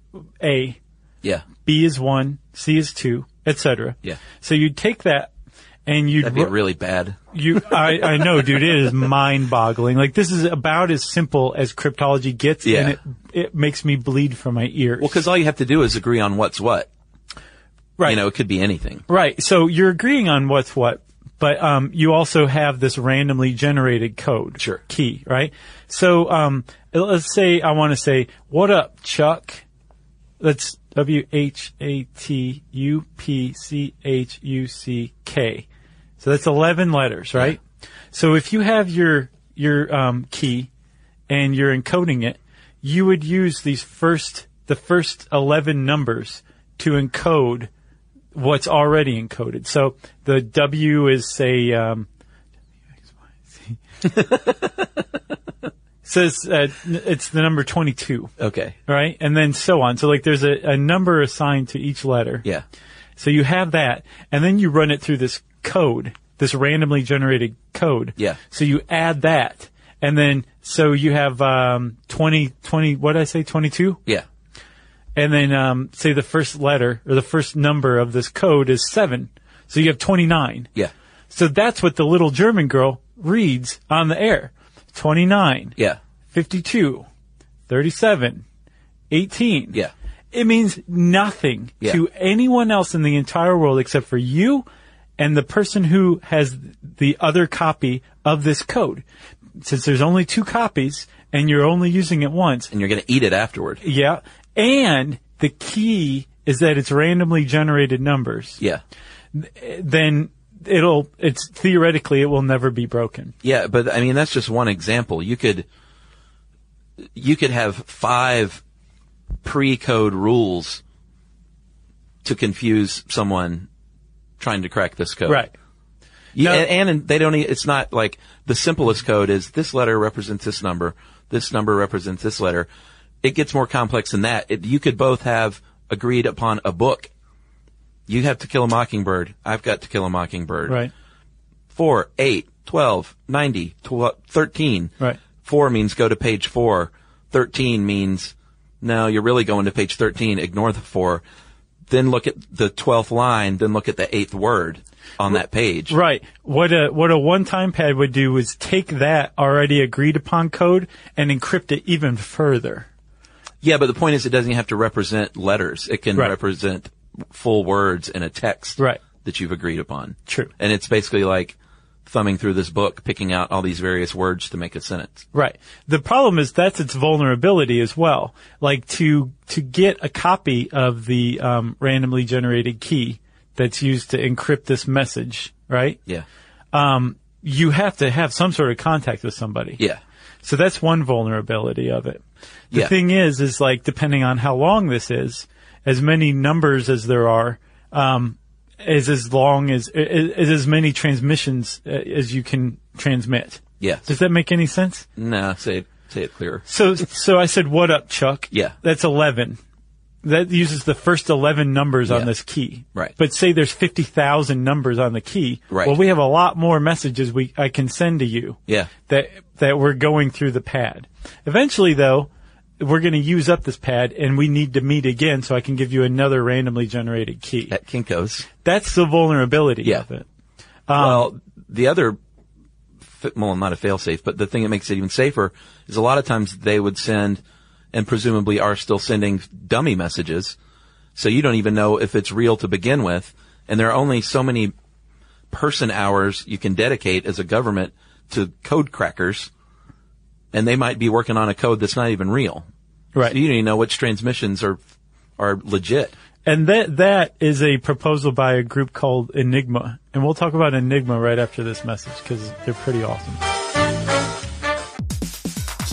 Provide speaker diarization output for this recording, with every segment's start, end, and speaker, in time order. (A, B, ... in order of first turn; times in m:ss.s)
0:00.4-0:00.8 A
0:01.6-0:05.3 A
0:05.9-0:06.5 A
0:06.2-0:07.2 B
0:07.3-0:15.2 A
0:07.7-0:08.3 B
0:12.6-0:13.0 B
0:15.0-0:16.9 B
0:18.0-0:19.0 B
0:19.1-0:29.6 A
0:30.4-0:35.7 A
0:36.2-0:37.6 A
0:38.1-0:40.7 A
0:41.3-0:47.7 A
0:48.4-0:52.1 A
0:53.5-0:53.8 A
0:54.0-0:54.5 B
0:56.0-0:58.3 A
0:58.4-0:58.8 B
0:58.9-1:02.5 A
1:03.2-1:14.0 A
1:15.2-1:20.7 A
1:21.3-1:25.8 A
1:26.3-1:27.1 A
1:27.7-1:28.4 A
1:29.1-1:29.8 A
1:30.3-1:34.6 A
1:35.2-1:39.0 A
1:39.6-1:42.7 A
1:42.7-1:43.8 B
1:43.8-1:48.6 A
1:49.3-1:53.3 A
1:53.4-1:55.7 B
1:57.2-1:58.6 B
1:59.4-2:00.8 B
2:02.2-2:03.7 B
2:04.4-2:05.5 B
2:05.3-2:05.5 A
2:06.4-2:12.7 B
2:06.4-2:06.7 A
2:13.2-2:17.1 B
2:18.1-2:20.8 B
2:21.7-2:31.2 B
2:31.9-2:36.0 B
2:35.9-2:42.9 A
2:43.6-2:51.6 B
2:52.1-2:55.2 B
2:55.3-3:06.0 A
3:06.7-3:09.8 A
3:10.4-3:25.1 A
3:23.8-3:24.1 B
3:25.2-3:26.6 B
3:26.7-3:29.6 A
3:28.5-3:28.8 B
3:30.2-3:47.8 A
3:35.7-3:36.0 B
3:47.7-3:48.5 B
3:48.6-3:50.3 A
3:50.9-3:51.3 A
3:51.0-3:52.2 B
3:53.1-3:57.4 B
3:57.9-4:00.6 B
4:01.2-4:04.7 B
4:05.5-4:09.5 B
4:10.5-4:12.7 B
4:13.2-4:14.8 B
4:15.4-4:16.1 B
4:16.4-4:23.4 A